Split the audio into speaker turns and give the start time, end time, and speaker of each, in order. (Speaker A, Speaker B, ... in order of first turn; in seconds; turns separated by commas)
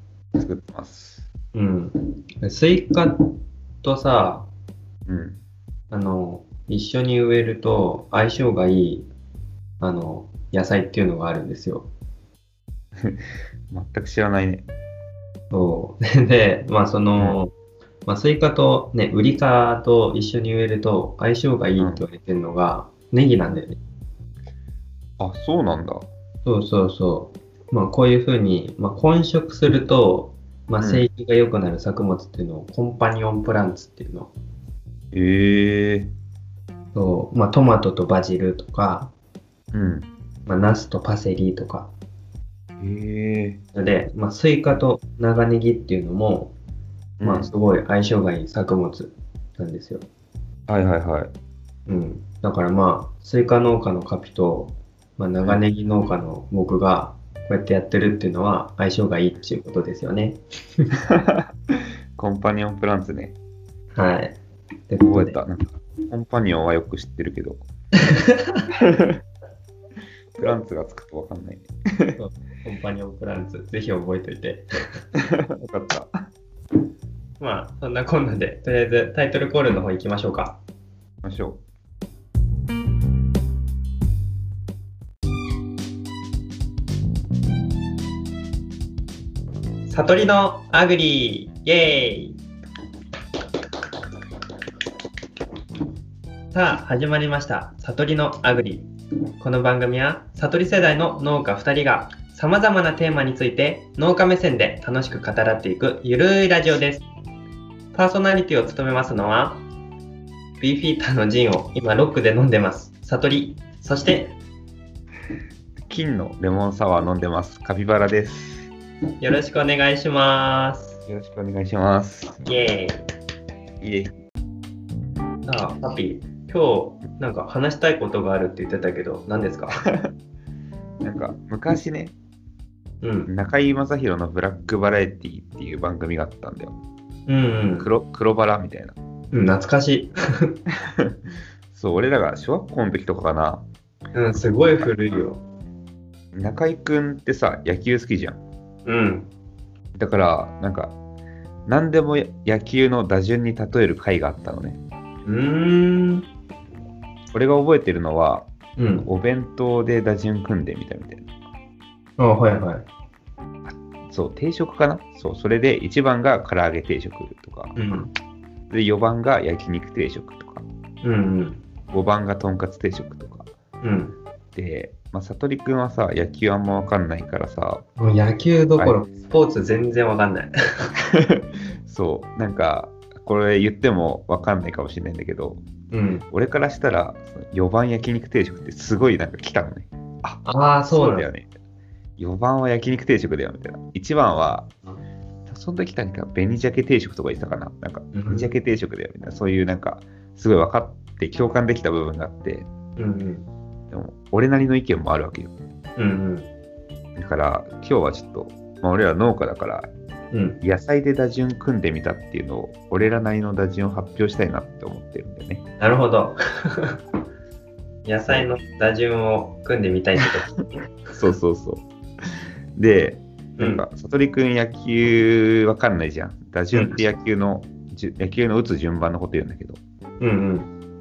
Speaker A: 0.4-1.2, Speaker B: 1.5-4.5, Speaker A: 5.1-5.4, Speaker B: 5.9-9.1, Speaker B: 9.8-11.9, Speaker A: 13.0-14.7, Speaker B: 15.5-17.5, Speaker B: 18.1-23.8, Speaker A: 21.8-22.1, Speaker A: 25.2-26.1, Speaker B: 26.4-34.3, Speaker A: 30.8-31.1, Speaker A: 35.1-36.1, Speaker B: 37.0-39.1, Speaker A: 39.7-40.1, Speaker B: 40.5-41.9, Speaker A: 42.8-43.6, Speaker B: 43.7-46.5, Speaker A: 47.2-47.5, Speaker B: 47.2-50.1, Speaker A: 50.7-51.3, Speaker B: 51.9-60.9, Speaker A: 61.1-61.5, Speaker A: 62.2-63.4, Speaker B: 64.0-64.4, Speaker B: 64.9-65.4, Speaker A: 65.0-67.6, Speaker B: 68.0-68.6, Speaker A: 68.7-69.2, Speaker A: 70.4-72.2, Speaker B: 72.2-74.7, Speaker A: 75.2-76.1, Speaker B: 77.4-80.6, Speaker A: 81.2-81.6, Speaker B: 89.9-92.4, Speaker B: 96.5-107.0, Speaker B: 107.9-109.6, Speaker B: 110.6-114.4, Speaker A: 115.9-118.7, Speaker B: 119.2-121.0, Speaker A: 121.1-122.4, Speaker B: 122.4-123.0, Speaker A: 123.8-124.1, Speaker B: 125.4-129.8, Speaker A: 129.8-130.1, Speaker A: 131.0-132.1, Speaker B: 133.0-133.3, Speaker A: 133.3-136.8, Speaker B: 137.3-137.9, Speaker A: 137.8-139.0, Speaker B: 139.3-140.6, Speaker A: 140.9-141.2, Speaker A: 141.7-143.7, Speaker B: 144.2-145.4, Speaker A: 146.3-148.4, Speaker B: 148.9-149.3, Speaker A: 149.9-150.9, Speaker A: 151.7-154.8, Speaker B: 155.3-156.3, Speaker A: 157.3-158.5, Speaker B: 158.8-159.1, Speaker A: 159.0-161.3, Speaker B: 162.2-162.9, Speaker A: 163.7-167.8, Speaker B: 167.8-168.1, Speaker A: 168.7-170.7, Speaker B: 171.0-171.6, Speaker A: 171.9-173.5, Speaker B: 173.8-174.2, Speaker A: 174.6-177.9, Speaker B: 178.0-180.9, Speaker A: 178.8-179.0, Speaker A: 181.1-185.6, Speaker B: 185.9-186.3, Speaker A: 186.3-191.5, Speaker B: 190.4-191.3, Speaker A: 192.2-194.7, Speaker A: 195.5-202.7, Speaker B: 198.1-198.6, Speaker B: 203.0-203.5, Speaker A: 203.9-205.5, Speaker B: 206.0-206.5, Speaker A: 207.2-209.9, Speaker B: 210.3-210.6, Speaker A: 210.6-215.7, Speaker B: 215.8-217.0, Speaker B: 218.1-220.6, Speaker A: 218.2-218.5, Speaker A: 221.2-221.8, Speaker A: 222.8-229.8, Speaker B: 223.6-223.8, Speaker B: 226.7-227.0, Speaker B: 230.2-230.7